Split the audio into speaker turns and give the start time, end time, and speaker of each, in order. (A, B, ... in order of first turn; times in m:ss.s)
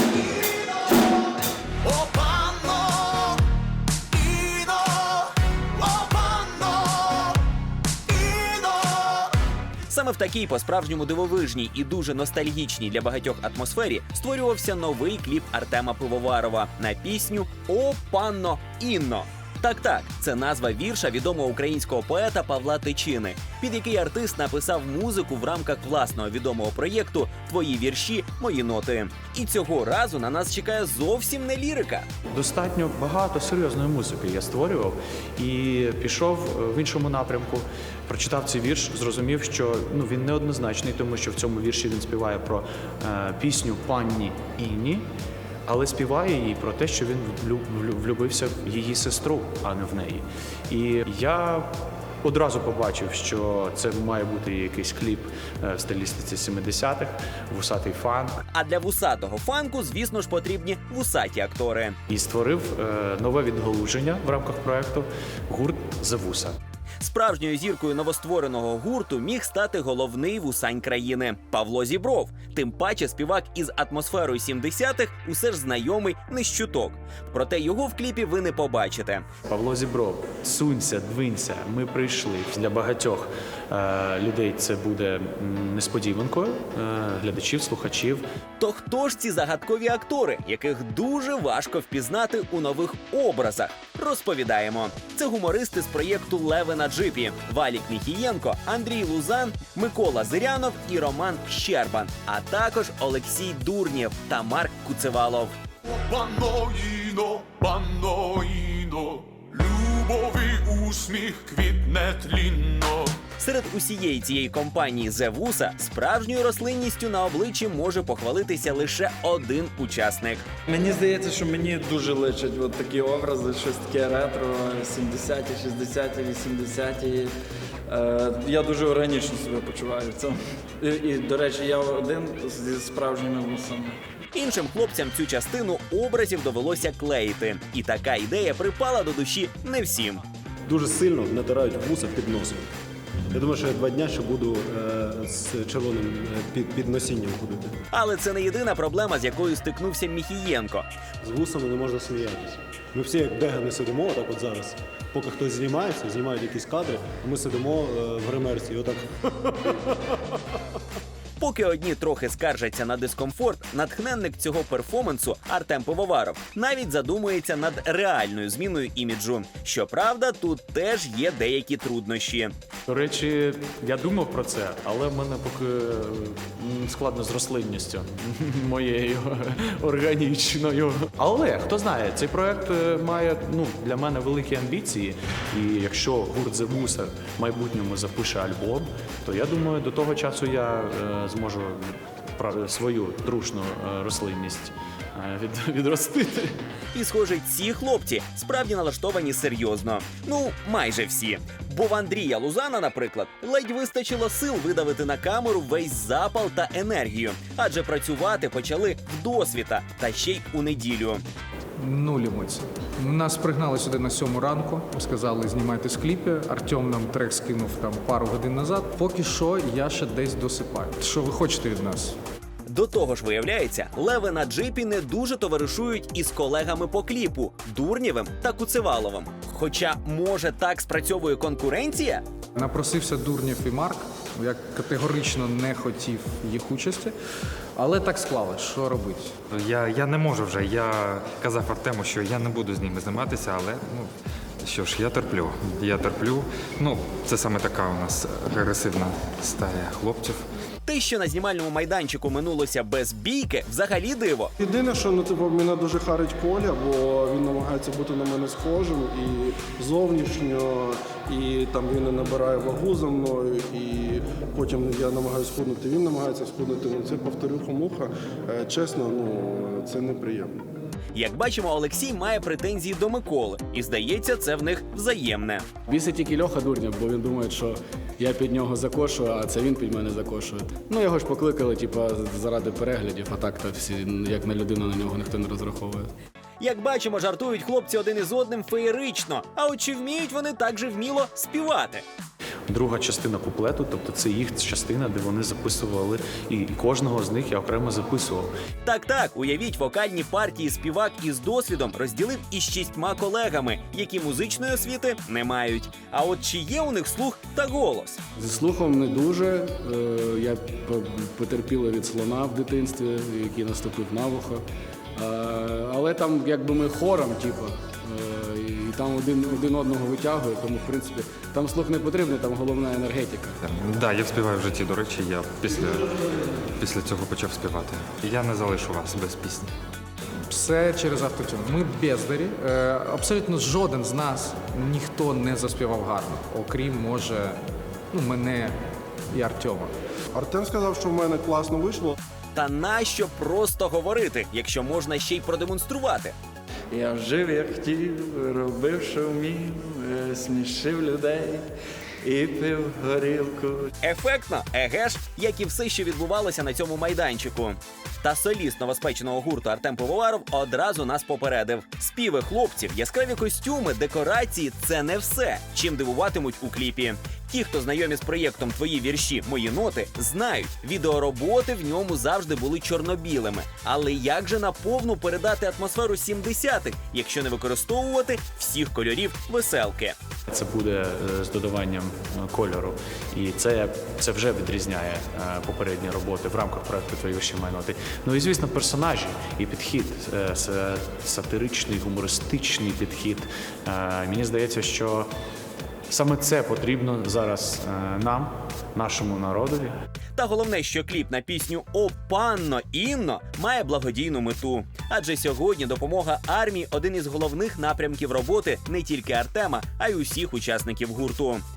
0:01.9-0:02.9 A
0:04.2-0:04.5 A
0:06.0-0:06.6 A
0:08.3-0:08.9 A
0:09.9-0:32.0 A
0:32.3-0:45.0 B
0:45.7-0:58.4 B
0:58.5-1:02.0 A
1:02.1-1:06.5 B
1:07.0-1:19.2 A
1:19.5-1:28.2 B
1:28.6-1:45.5 A
1:46.1-1:53.2 C
1:53.4-2:00.4 A
2:00.7-2:07.3 D
2:07.9-2:14.0 D
2:14.3-2:20.2 A
2:20.7-2:22.7 E
2:23.3-2:27.8 E
2:27.9-2:30.8 A
2:31.2-2:39.7 E
2:41.4-2:52.5 A
2:52.9-3:16.6 B
3:16.9-3:31.2 A
3:31.8-3:42.2 F
3:42.7-3:52.2 A
3:52.6-3:57.1 F
3:57.8-3:59.3 F
3:59.5-4:04.1 G
4:04.6-4:10.4 G
4:10.8-4:14.5 A
4:14.6-4:30.6 H
4:31.1-4:35.6 A
4:35.9-4:46.1 I
4:46.6-4:52.0 A
4:52.7-4:58.5 B
4:58.8-5:08.2 A
5:08.4-5:14.6 I
5:15.2-5:23.6 I
5:23.6-5:26.1 G
5:26.8-5:29.7 G
5:30.5-5:37.6 F
5:38.1-5:38.8 F
5:39.3-5:39.9 F
5:40.3-5:42.1 H
5:42.6-5:46.3 A
5:46.9-5:51.7 D
5:52.2-5:53.9 D
5:54.0-6:20.1 A
6:20.5-6:35.3 B
6:36.1-6:39.9 B
6:40.4-6:51.6 A